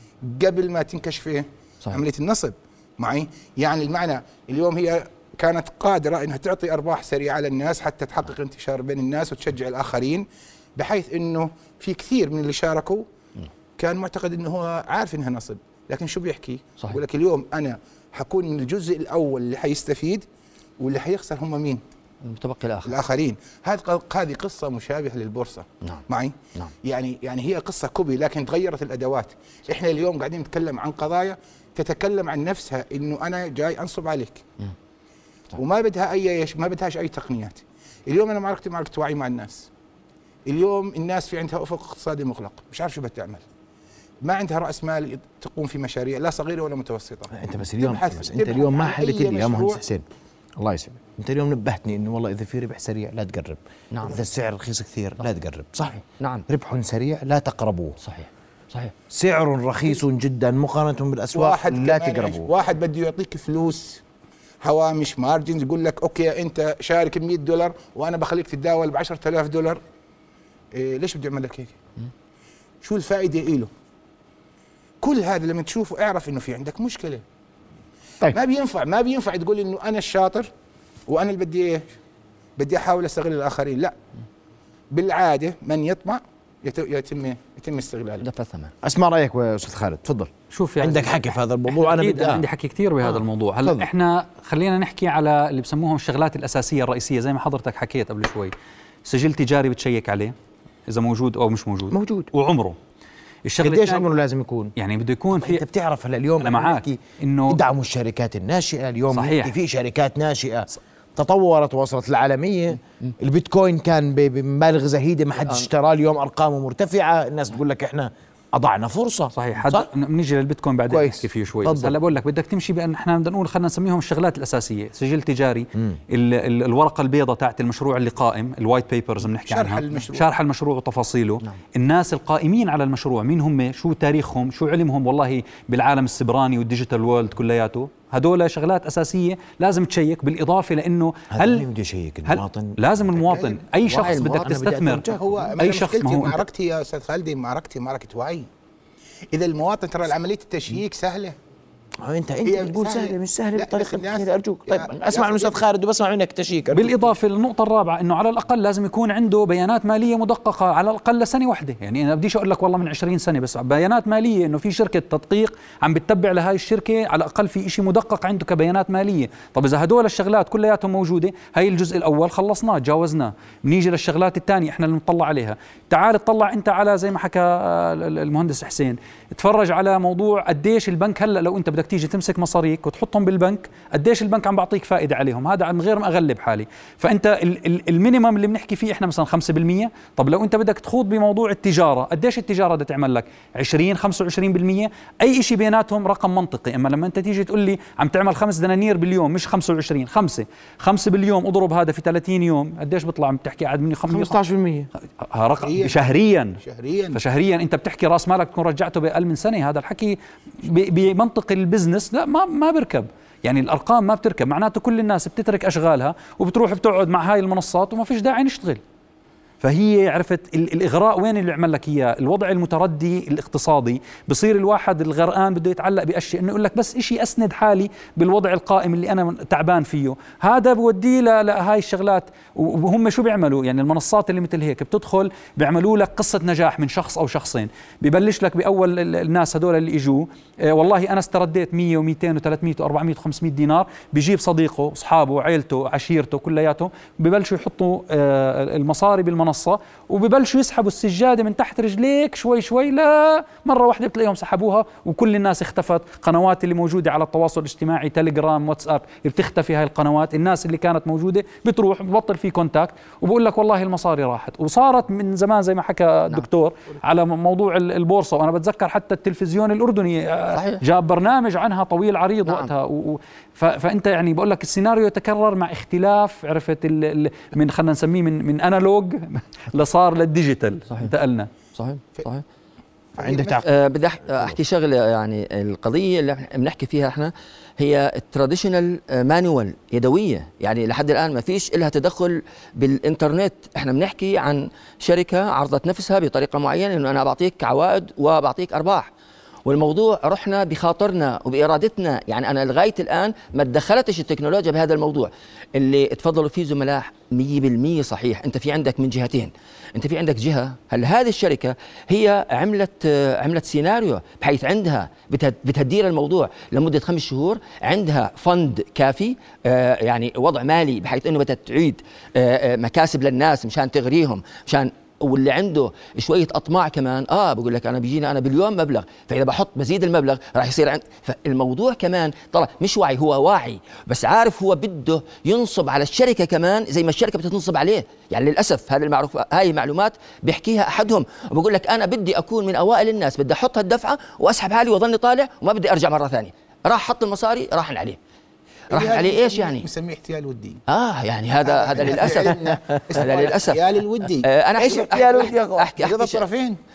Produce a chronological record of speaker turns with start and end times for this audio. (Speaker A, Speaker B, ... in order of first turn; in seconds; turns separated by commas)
Speaker A: 0.2-13.1, Speaker A: 13.8-20.2, Speaker A: 20.8-21.8, Speaker B: 22.2-23.0, Speaker A: 22.8-34.4, Speaker A: 35.5-39.7, Speaker A: 40.5-43.4, Speaker A: 44.2-49.8, Speaker C: 47.3-50.0, Speaker C: 50.6-58.0, Speaker B: 53.9-54.2, Speaker B: 55.9-56.4, Speaker B: 58.0-58.9, Speaker C: 59.1-62.5, Speaker A: 61.3-64.0, Speaker A: 64.6-69.8, Speaker A: 70.7-71.8, Speaker A: 72.8-73.7, Speaker A: 75.0-77.2, Speaker A: 78.3-80.5, Speaker A: 81.1-81.8, Speaker A: 82.6-84.0, Speaker A: 84.9-88.3, Speaker B: 88.2-88.7, Speaker C: 88.8-92.4, Speaker D: 90.5-98.5, Speaker D: 99.0-100.3, Speaker D: 100.9-102.8, Speaker C: 101.9-102.3, Speaker D: 103.4-104.1, Speaker C: 103.6-104.7, Speaker D: 104.8-105.6, Speaker C: 105.3-119.9, Speaker D: 106.4-107.6, Speaker D: 109.1-109.5, Speaker D: 119.3-141.7, Speaker C: 120.9-121.9, Speaker C: 125.8-126.0, Speaker A: 129.2-130.3, Speaker C: 141.3-145.5, Speaker D: 142.3-145.0, Speaker B: 144.0-144.6, Speaker A: 145.1-148.5, Speaker D: 145.6-146.4, Speaker A: 149.3-151.4, Speaker C: 152.0-157.0, Speaker A: 152.4-155.6, Speaker D: 156.7-204.4, Speaker C: 204.1-204.9, Speaker D: 205.2-206.6, Speaker A: 205.6-207.2, Speaker D: 207.1-218.8, Speaker D: 219.6-281.5, Speaker B: 270.5-270.8, Speaker B: 272.4-272.7, Speaker B: 281.8-282.4, Speaker C: 283.2-283.7, Speaker A: 283.2-283.5, Speaker B: 283.5-299.1, Speaker C: 284.3-284.5, Speaker B: 299.6-348.2, Speaker B: 348.9-349.9, Speaker A: 348.9-350.8, Speaker B: 350.9-356.4, Speaker A: 351.6-354.5, Speaker C: 354.8-355.9, Speaker A: 355.9-356.8